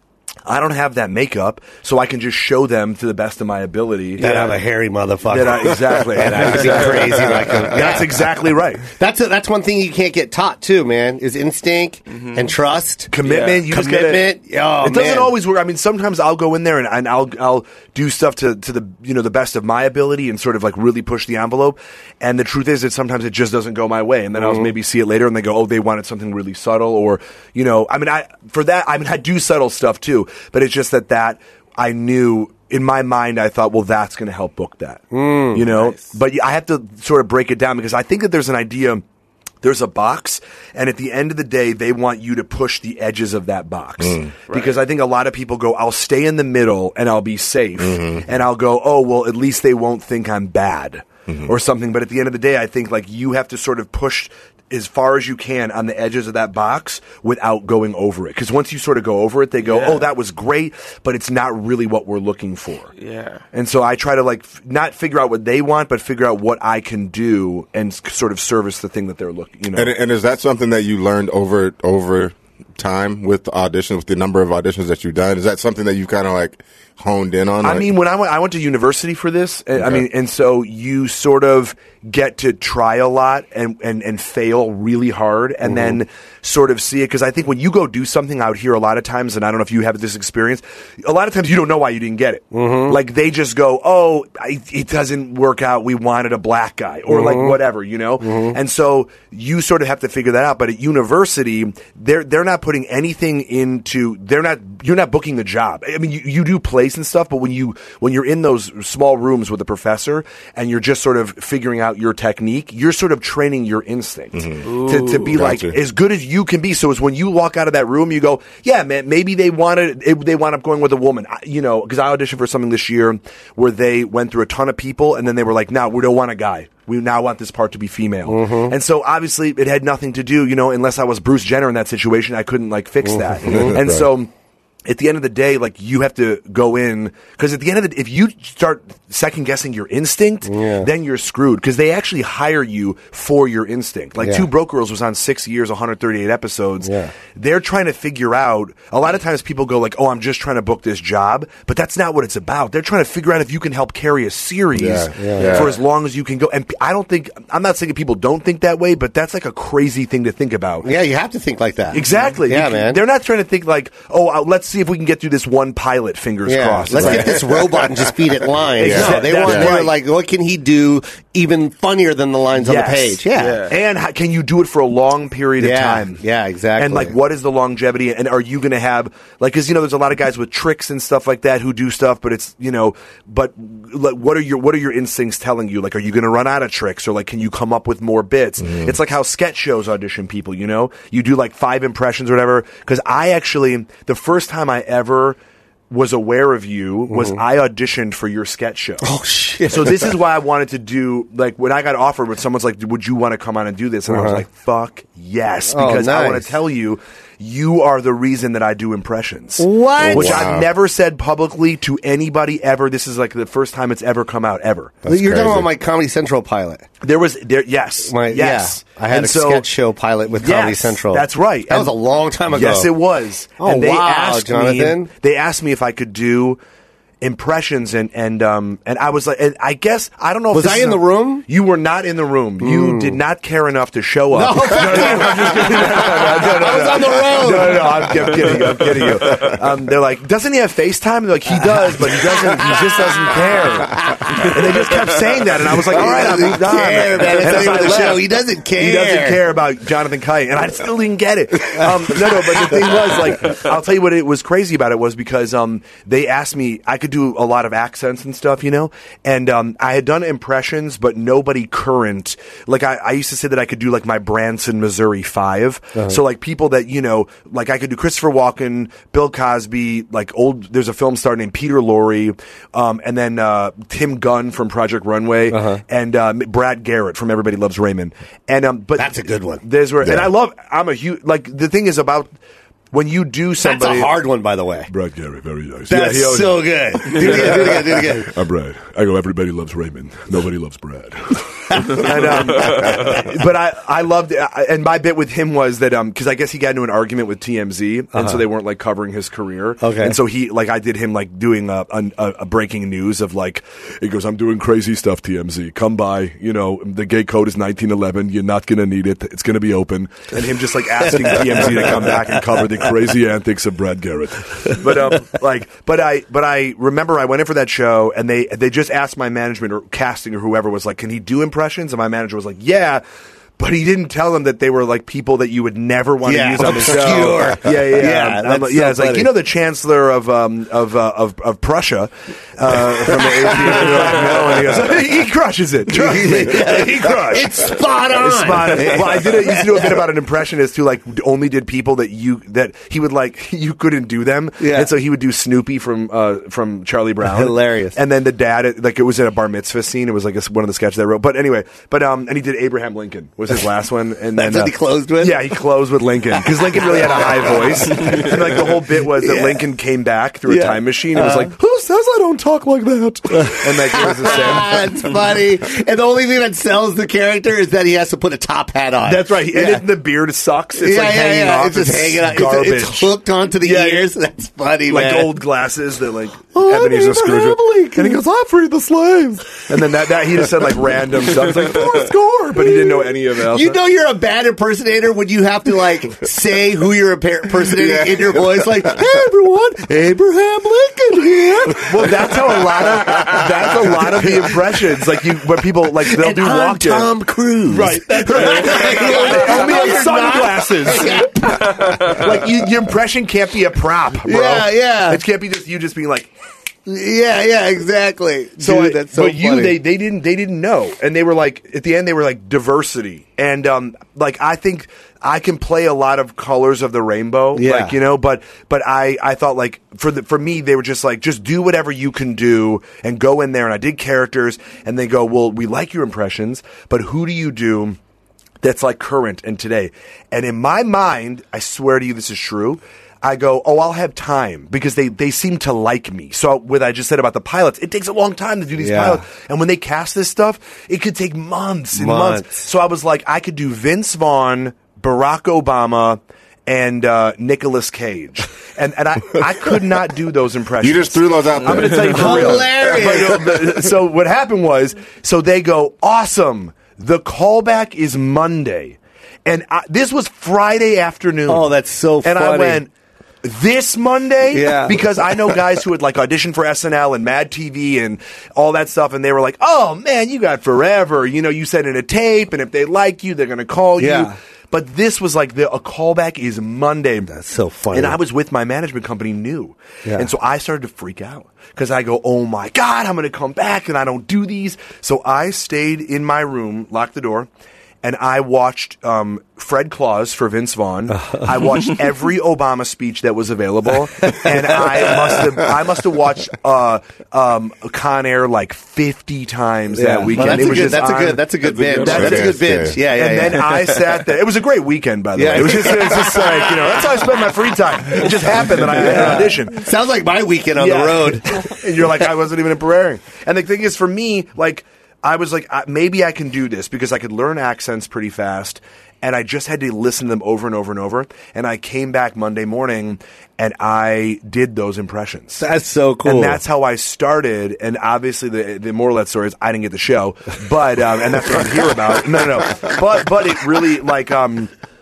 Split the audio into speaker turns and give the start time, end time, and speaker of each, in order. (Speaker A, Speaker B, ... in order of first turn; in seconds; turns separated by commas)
Speaker A: 0.5-4.6, Speaker B: 4.2-8.2, Speaker A: 5.3-8.8, Speaker B: 8.9-13.1, Speaker A: 13.1-14.3, Speaker C: 13.2-13.6, Speaker B: 13.7-15.3, Speaker A: 14.8-39.0, Speaker B: 24.4-24.7, Speaker B: 35.1-35.6, Speaker C: 35.7-36.1, Speaker A: 39.6-62.9, Speaker D: 44.0-44.3, Speaker C: 44.5-44.8, Speaker D: 47.8-48.2, Speaker C: 59.6-60.1, Speaker C: 63.0-63.4, Speaker A: 63.5-69.9, Speaker D: 69.7-77.9, Speaker A: 77.6-134.3, Speaker B: 85.7-85.9, Speaker B: 92.5-93.0, Speaker B: 97.1-97.6, Speaker B: 98.2-98.5, Speaker D: 114.3-114.6, Speaker C: 114.6-115.4, Speaker D: 115.3-115.7, Speaker B: 128.3-128.7, Speaker B: 133.0-133.8, Speaker D: 133.4-134.1, Speaker A: 134.8-160.9, Speaker B: 140.4-140.9, Speaker B: 144.2-144.5, Speaker B: 146.8-147.1, Speaker D: 154.8-155.8, Speaker B: 155.1-155.7, Speaker B: 160.8-163.0, Speaker A: 161.9-167.4, Speaker B: 166.4-173.6, Speaker D: 166.9-168.1, Speaker A: 168.8-169.9, Speaker D: 168.8-169.7, Speaker A: 172.6-176.2, Speaker C: 173.3-173.7, Speaker B: 175.6-177.2, Speaker A: 176.8-195.4, Speaker D: 188.7-188.9, Speaker A: 195.9-199.0, Speaker B: 197.1-197.4, Speaker B: 199.0-200.2, Speaker A: 199.6-215.0, Speaker B: 204.1-204.4, Speaker B: 205.7-206.5, Speaker B: 209.6-210.5, Speaker D: 210.0-210.7, Speaker D: 215.0-215.7, Speaker B: 215.1-216.8, Speaker A: 217.0-219.7, Speaker B: 218.0-222.9, Speaker A: 220.4-221.9, Speaker A: 222.5-226.6, Speaker B: 223.6-225.1, Speaker A: 227.2-282.3, Speaker B: 230.5-231.4, Speaker B: 232.6-233.2, Speaker B: 234.3-238.3, Speaker B: 244.0-244.5, Speaker B: 245.9-249.4, Speaker B: 275.5-275.8, Speaker B: 279.0-279.6, Speaker D: 280.0-280.3, Speaker A: 282.9-284.1, Speaker B: 283.6-284.9, Speaker A: 284.9-323.0, Speaker B: 285.9-288.3, Speaker B: 291.9-292.7, Speaker B: 298.1-298.4, Speaker B: 299.8-300.1, Speaker B: 311.1-312.1, Speaker A: 323.6-364.9, Speaker B: 326.2-329.3, Speaker B: 333.6-334.4, Speaker B: 335.9-340.0, Speaker B: 344.6-344.9, Speaker B: 347.2-348.0, Speaker B: 354.4-355.4, Speaker B: 356.4-358.4, Speaker B: 359.1-359.6, Speaker B: 360.5-361.5, Speaker B: 363.3-369.8, Speaker A: 369.0-374.1, Speaker B: 370.8-375.4, Speaker A: 374.9-383.8, Speaker B: 376.5-378.2, Speaker B: 382.6-394.5, Speaker D: 387.7-388.9, Speaker A: 391.7-397.1, Speaker B: 396.0-402.2, Speaker A: 397.7-406.3, Speaker B: 404.2-405.2, Speaker B: 406.9-409.8, Speaker A: 408.6-428.0, Speaker B: 417.5-418.0, Speaker A: 428.6-461.7, Speaker B: 438.8-439.2, Speaker B: 441.9-442.7, Speaker D: 450.8-453.3, Speaker B: 452.0-453.5, Speaker B: 461.5-462.8, Speaker A: 462.2-462.9, Speaker A: 463.4-477.3, Speaker B: 464.5-465.0, Speaker B: 474.0-474.3, Speaker B: 477.3-478.2, Speaker A: 477.9-487.5, Speaker A: 488.0-509.9, Speaker B: 491.2-491.4, Speaker B: 494.4-495.1, Speaker B: 499.9-503.7, Speaker D: 502.0-503.0, Speaker B: 505.3-507.0, Speaker B: 508.7-511.5, Speaker A: 510.8-525.6, Speaker B: 525.5-526.6, Speaker A: 526.2-534.7